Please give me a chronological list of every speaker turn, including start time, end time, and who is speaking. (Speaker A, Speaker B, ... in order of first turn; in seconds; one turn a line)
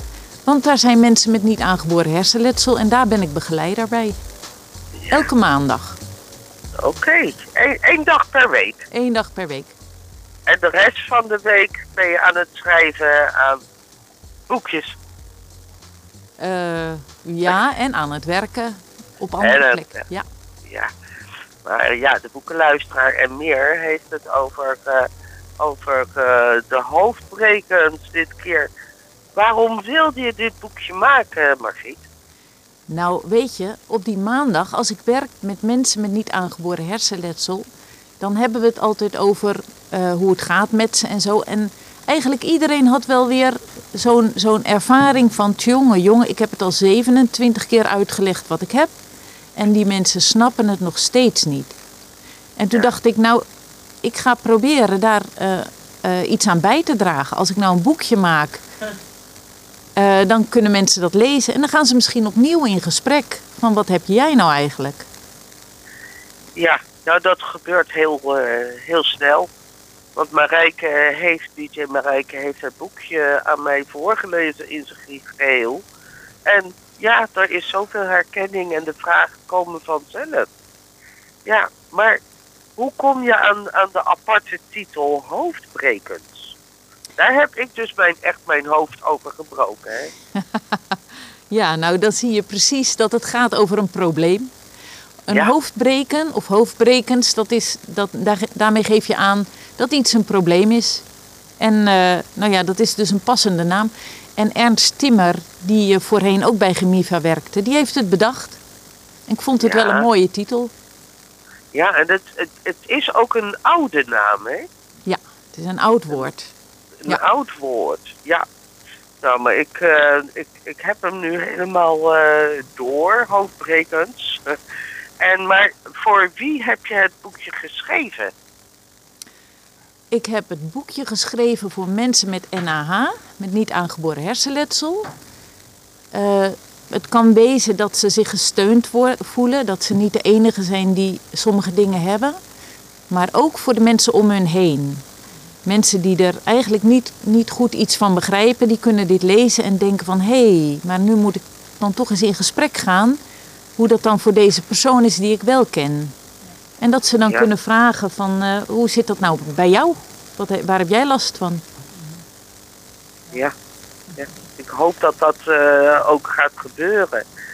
Speaker A: 0.5-4.2
Speaker B: 5.0-5.2
Speaker A: 5.1-6.0
Speaker B: 6.8-8.9
Speaker A: 8.9-9.7
Speaker B: 10.5-13.6
Speaker B: 14.5-15.0
Speaker A: 16.4-20.2
Speaker B: 19.4-20.0
Speaker B: 21.6-25.1
Speaker B: 25.6-28.7
Speaker B: 29.4-32.0
Speaker A: 32.9-37.7
Speaker A: 38.2-48.9
Speaker A: 49.5-51.8
Speaker A: 52.6-53.4
Speaker A: 54.0-58.6
Speaker A: 60.0-65.1
Speaker B: 66.6-69.5
Speaker B: 70.2-75.8
Speaker B: 76.5-80.5
Speaker B: 81.5-82.2
Speaker B: 82.8-86.5
Speaker B: 87.2-90.1
Speaker A: 90.3-94.5
Speaker A: 95.3-101.0
Speaker A: 101.6-108.6
Speaker A: 109.3-110.7
Speaker B: 109.6-110.1
Speaker B: 111.7-114.7
Speaker A: 115.0-116.5
Speaker B: 117.0-118.5
Speaker B: 119.2-124.6
Speaker B: 125.2-128.3
Speaker A: 130.1-135.1
Speaker A: 136.1-142.4
Speaker A: 143.1-145.0
Speaker A: 145.7-153.2
Speaker A: 153.8-156.2
Speaker A: 156.8-161.6
Speaker B: 164.2-167.2